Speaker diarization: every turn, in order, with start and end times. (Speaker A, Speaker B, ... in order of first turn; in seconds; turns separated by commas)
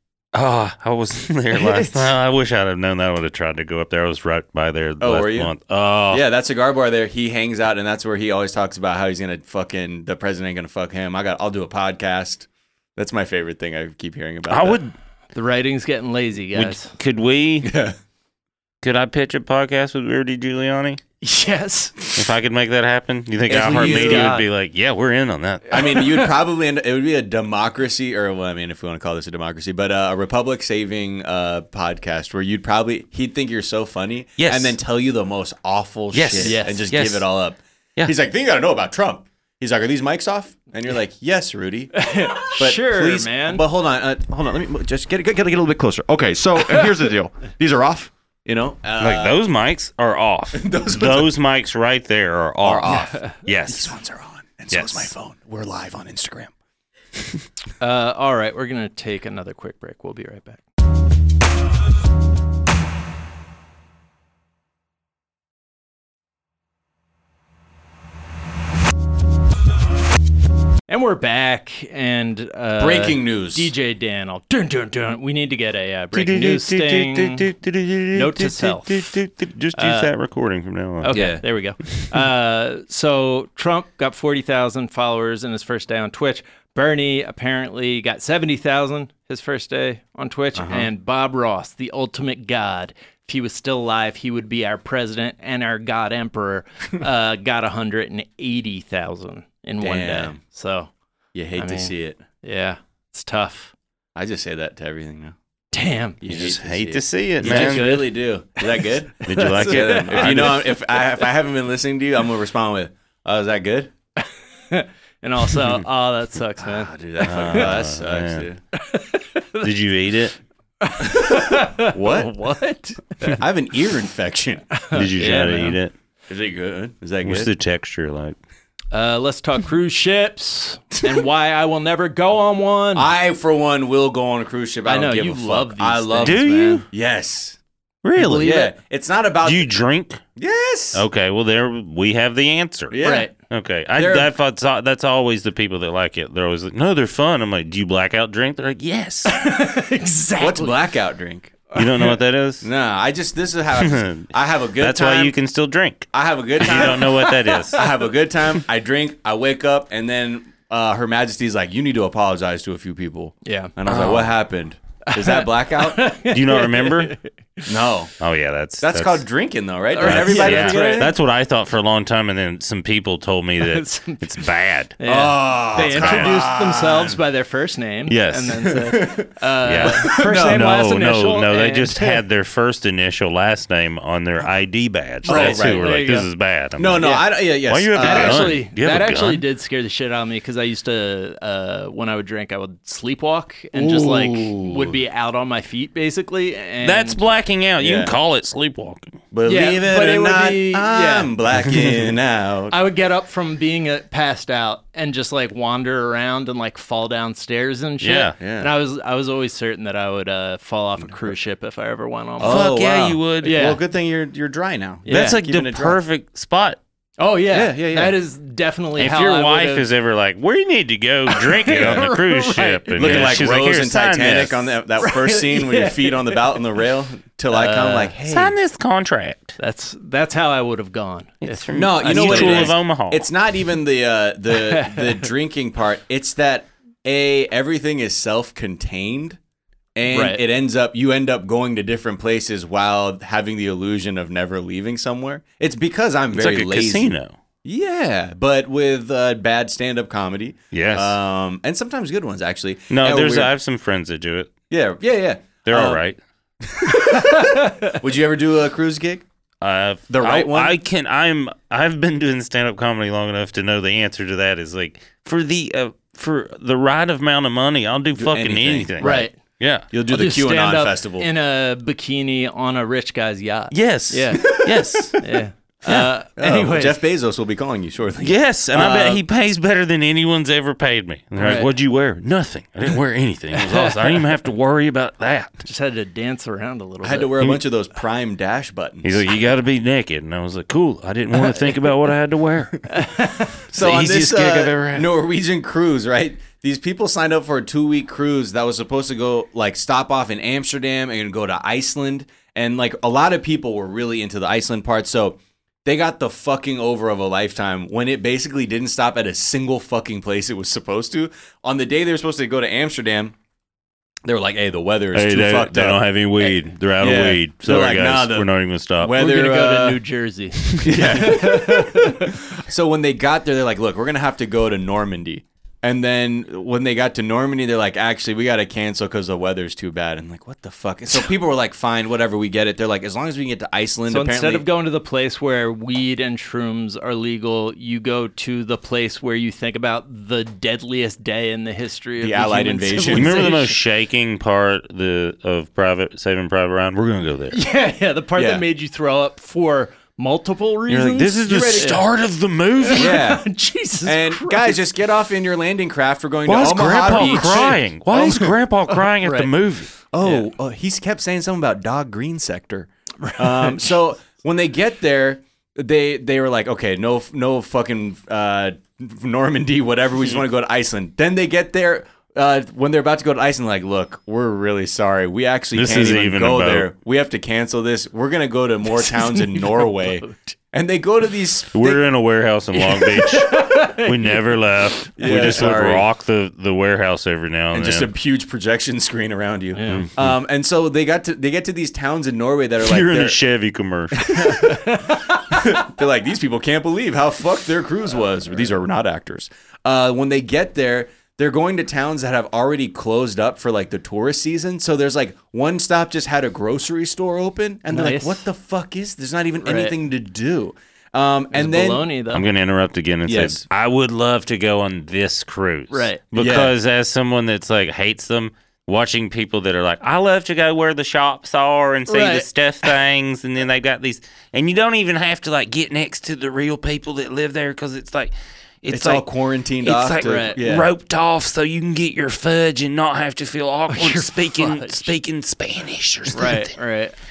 Speaker A: 0.3-6.2, Speaker B: 1.7-2.1, Speaker C: 5.0-5.5, Speaker C: 6.1-14.8, Speaker A: 14.5-14.9, Speaker B: 15.3-16.9, Speaker A: 16.5-17.7, Speaker C: 17.6-17.9, Speaker A: 18.8-21.0, Speaker B: 21.2-22.0, Speaker A: 22.1-25.7, Speaker C: 23.5-24.4, Speaker B: 23.6-24.4, Speaker C: 25.7-49.4, Speaker B: 25.8-26.0, Speaker A: 34.4-34.8, Speaker A: 36.1-37.3, Speaker B: 36.4-36.8, Speaker B: 41.9-43.6, Speaker A: 49.0-54.0, Speaker C: 50.5-51.3, Speaker C: 52.6-56.5, Speaker B: 52.9-53.4, Speaker A: 54.7-55.1, Speaker B: 57.8-60.6, Speaker B: 70.9-77.5, Speaker C: 72.8-73.7, Speaker A: 76.1-81.3, Speaker B: 78.1-79.1, Speaker B: 79.8-80.1, Speaker B: 81.0-100.9, Speaker C: 81.1-81.4, Speaker C: 90.5-90.9, Speaker C: 99.8-100.4, Speaker C: 101.3-102.2, Speaker B: 101.6-103.7, Speaker C: 104.1-105.3, Speaker B: 105.7-106.2, Speaker C: 106.2-113.9, Speaker A: 106.2-108.0, Speaker B: 107.4-110.5, Speaker A: 109.2-110.8, Speaker B: 114.2-116.9, Speaker C: 116.6-118.6, Speaker A: 117.2-118.5, Speaker B: 118.7-119.7, Speaker A: 119.6-120.4, Speaker B: 120.8-123.4, Speaker C: 121.0-122.3, Speaker C: 123.4-124.7, Speaker B: 124.8-125.8, Speaker A: 124.9-125.9, Speaker C: 126.3-127.5, Speaker A: 127.2-128.4, Speaker B: 128.9-133.1, Speaker C: 132.9-137.6, Speaker B: 134.8-136.8, Speaker A: 136.2-136.8, Speaker A: 138.0-138.7, Speaker B: 138.2-138.7, Speaker C: 138.4-139.7, Speaker A: 139.4-140.2, Speaker C: 140.4-141.1, Speaker A: 140.9-149.4, Speaker C: 142.9-143.3, Speaker B: 143.0-143.3, Speaker C: 143.9-144.3, Speaker B: 149.3-150.8, Speaker C: 150.4-151.6, Speaker B: 151.7-152.2, Speaker A: 151.7-152.7, Speaker C: 152.6-155.3, Speaker A: 153.8-157.8, Speaker C: 156.1-166.0, Speaker B: 156.6-157.8, Speaker B: 163.4-163.7, Speaker A: 163.8-164.3, Speaker B: 165.1-167.6, Speaker A: 166.3-167.1, Speaker C: 167.7-168.1, Speaker A: 168.2-169.3, Speaker C: 168.8-171.1, Speaker B: 169.9-171.1, Speaker A: 170.0-174.9, Speaker B: 173.6-174.4, Speaker B: 175.0-182.2, Speaker C: 175.0-177.2, Speaker A: 175.8-176.3, Speaker A: 178.1-178.7, Speaker C: 178.6-180.6, Speaker A: 179.6-189.4, Speaker C: 185.2-185.9, Speaker B: 185.2-186.3, Speaker C: 186.8-188.5, Speaker B: 187.9-197.2, Speaker C: 193.7-195.0, Speaker A: 196.8-199.2, Speaker C: 197.8-198.1, Speaker C: 199.3-202.8, Speaker B: 199.4-201.3, Speaker B: 202.7-212.7, Speaker A: 208.0-208.3, Speaker C: 208.4-208.7, Speaker C: 211.0-211.3, Speaker C: 212.4-216.0, Speaker A: 212.4-213.7, Speaker B: 213.4-213.8, Speaker B: 215.0-215.4, Speaker A: 215.1-216.8, Speaker B: 217.2-219.9, Speaker C: 217.5-218.1, Speaker A: 219.0-224.7, Speaker B: 221.3-223.4, Speaker C: 223.0-228.5, Speaker B: 225.0-226.6, Speaker B: 227.5-228.1, Speaker A: 228.3-229.6, Speaker B: 229.6-232.8, Speaker A: 231.4-233.3, Speaker C: 231.7-239.4, Speaker B: 234.5-235.3, Speaker C: 239.9-247.1, Speaker B: 240.1-240.4, Speaker A: 246.3-247.4, Speaker C: 247.6-253.5, Speaker A: 250.7-251.2, Speaker A: 252.9-254.5, Speaker C: 254.7-256.0, Speaker A: 255.6-256.2, Speaker C: 256.6-259.2, Speaker B: 256.9-258.0, Speaker A: 259.6-269.9, Speaker C: 260.1-260.8, Speaker C: 268.1-269.3, Speaker B: 269.0-269.4, Speaker C: 269.9-271.3, Speaker B: 270.1-274.5, Speaker A: 273.7-275.2, Speaker C: 274.4-275.2, Speaker B: 275.2-277.0, Speaker C: 276.4-279.2, Speaker A: 278.2-285.7, Speaker B: 281.4-281.7, Speaker B: 283.5-284.2, Speaker B: 285.6-287.3, Speaker C: 287.0-289.2, Speaker A: 289.0-292.9, Speaker B: 292.9-293.6, Speaker A: 293.7-295.1, Speaker C: 293.7-313.3, Speaker C: 314.2-316.0, Speaker A: 315.1-319.2, Speaker C: 317.0-320.0, Speaker B: 319.1-322.3, Speaker A: 320.7-321.2, Speaker C: 320.8-334.6, Speaker B: 334.1-343.7, Speaker C: 342.2-343.5, Speaker A: 343.1-347.6, Speaker B: 347.5-352.1, Speaker C: 348.4-348.6, Speaker A: 350.9-353.2, Speaker C: 351.5-351.9, Speaker B: 352.8-354.8, Speaker C: 352.9-353.4, Speaker C: 354.0-358.5, Speaker A: 356.4-359.9, Speaker B: 357.1-357.7, Speaker B: 359.2-359.5, Speaker C: 360.1-382.0, Speaker B: 363.2-363.9, Speaker A: 375.7-376.9, Speaker B: 378.9-380.5, Speaker A: 381.7-388.1, Speaker B: 382.7-384.4, Speaker B: 385.1-385.6, Speaker C: 385.2-386.1, Speaker C: 387.7-393.4, Speaker B: 389.7-390.1, Speaker A: 389.9-390.4, Speaker A: 392.8-394.5, Speaker C: 394.2-394.9, Speaker B: 394.5-395.4, Speaker C: 395.5-412.0, Speaker B: 407.9-408.4, Speaker B: 409.6-409.9, Speaker B: 411.5-412.5, Speaker A: 412.3-429.3, Speaker C: 413.3-413.6, Speaker B: 415.9-416.2, Speaker C: 416.4-416.7, Speaker B: 422.1-422.9, Speaker C: 428.9-430.9, Speaker A: 429.8-436.8, Speaker B: 430.2-430.6, Speaker B: 433.9-435.1, Speaker B: 436.3-437.1